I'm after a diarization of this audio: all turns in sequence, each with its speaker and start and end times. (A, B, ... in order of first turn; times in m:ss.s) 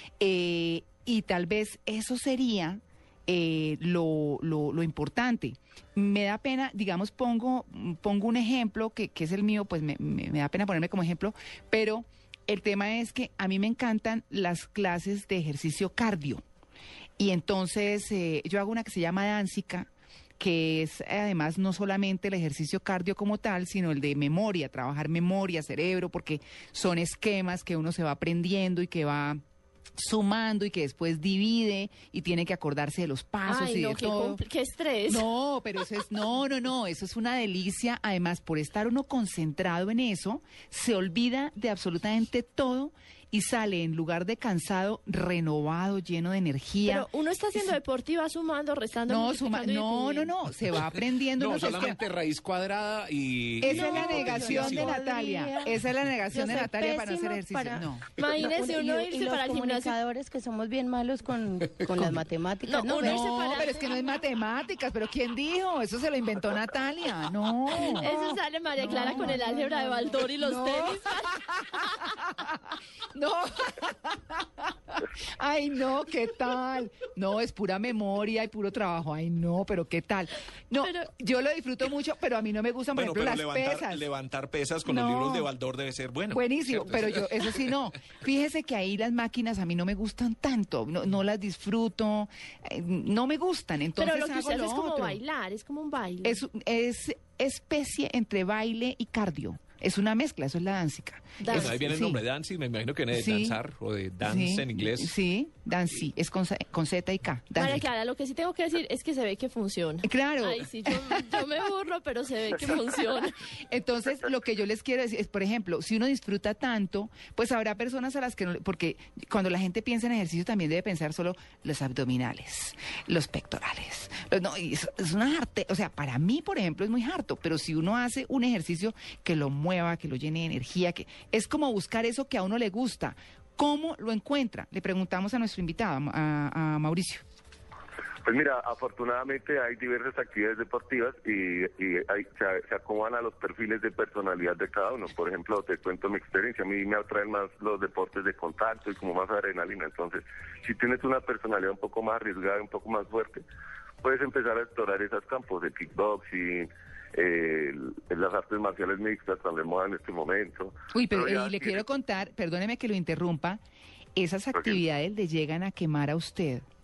0:00.2-0:16.4 A
0:17.2-0:29.4 A
0:30.0-0:34.4 A
0:33.4-0:35.3 B
0:35.1-0:47.7 A
0:46.8-0:50.3 B
0:49.1-0:52.0 A
0:51.4-0:54.9 C
0:53.6-0:58.1 A
0:53.8-0:55.7 D
0:53.8-0:54.8 B
0:56.3-1:03.3 D
0:58.2-1:00.0 B
1:02.6-1:04.2 B
1:02.9-1:09.4 A
1:08.0-1:12.1 B
1:08.8-1:10.8 D
1:10.8-1:11.8 A
1:12.4-1:24.0 A
1:20.8-1:21.1 B
1:22.9-1:27.6 C
1:24.8-1:25.5 A
1:26.3-1:35.2 A
1:34.0-1:36.4 B
1:36.2-1:42.2 A
1:41.4-1:41.8 B
1:41.5-1:45.1 C
1:43.1-1:43.6 A
1:44.2-1:47.9 A
1:47.6-1:53.4 B
1:50.0-1:51.2 A
1:53.7-2:17.2 A
2:18.2-2:33.4 E
2:34.0-2:41.8 E
2:40.9-2:43.6 A
2:44.2-2:46.6 A
2:44.5-2:44.8 E